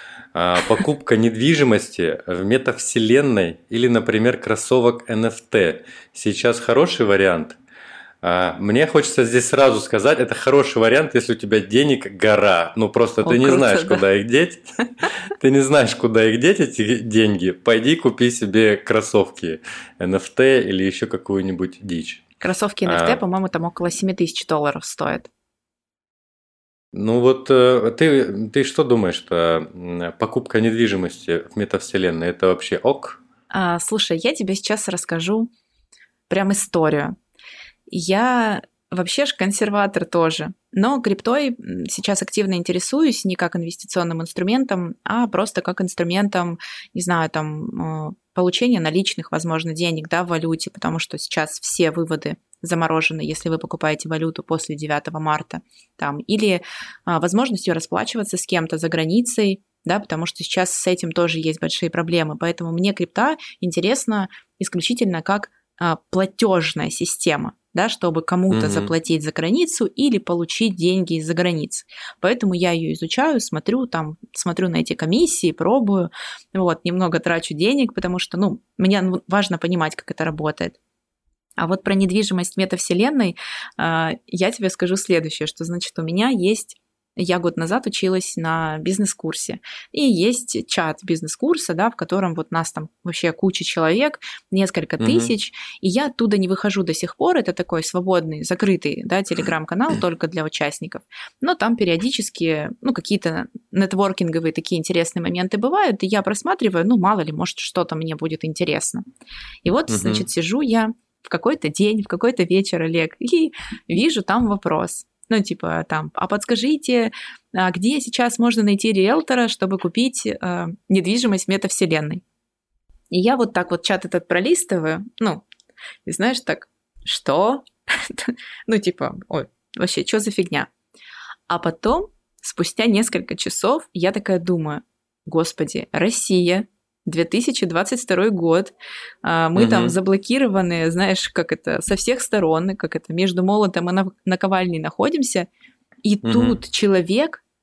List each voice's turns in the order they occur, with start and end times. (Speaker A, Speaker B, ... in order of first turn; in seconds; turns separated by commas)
Speaker A: 0.3-7.6, Speaker A: 8.2-22.2, Speaker B: 13.2-14.0, Speaker B: 22.4-25.3, Speaker A: 22.9-23.2, Speaker A: 26.9-33.2, Speaker B: 33.5-35.5, Speaker B: 36.3-37.2, Speaker B: 37.9-80.8, Speaker A: 68.5-68.9, Speaker B: 81.6-109.0, Speaker A: 95.0-95.3, Speaker B: 109.6-122.2, Speaker A: 109.9-110.2, Speaker B: 123.1-125.5, Speaker B: 126.1-130.7, Speaker B: 131.5-145.5, Speaker A: 139.6-139.9, Speaker B: 146.0-147.4, Speaker A: 146.2-146.6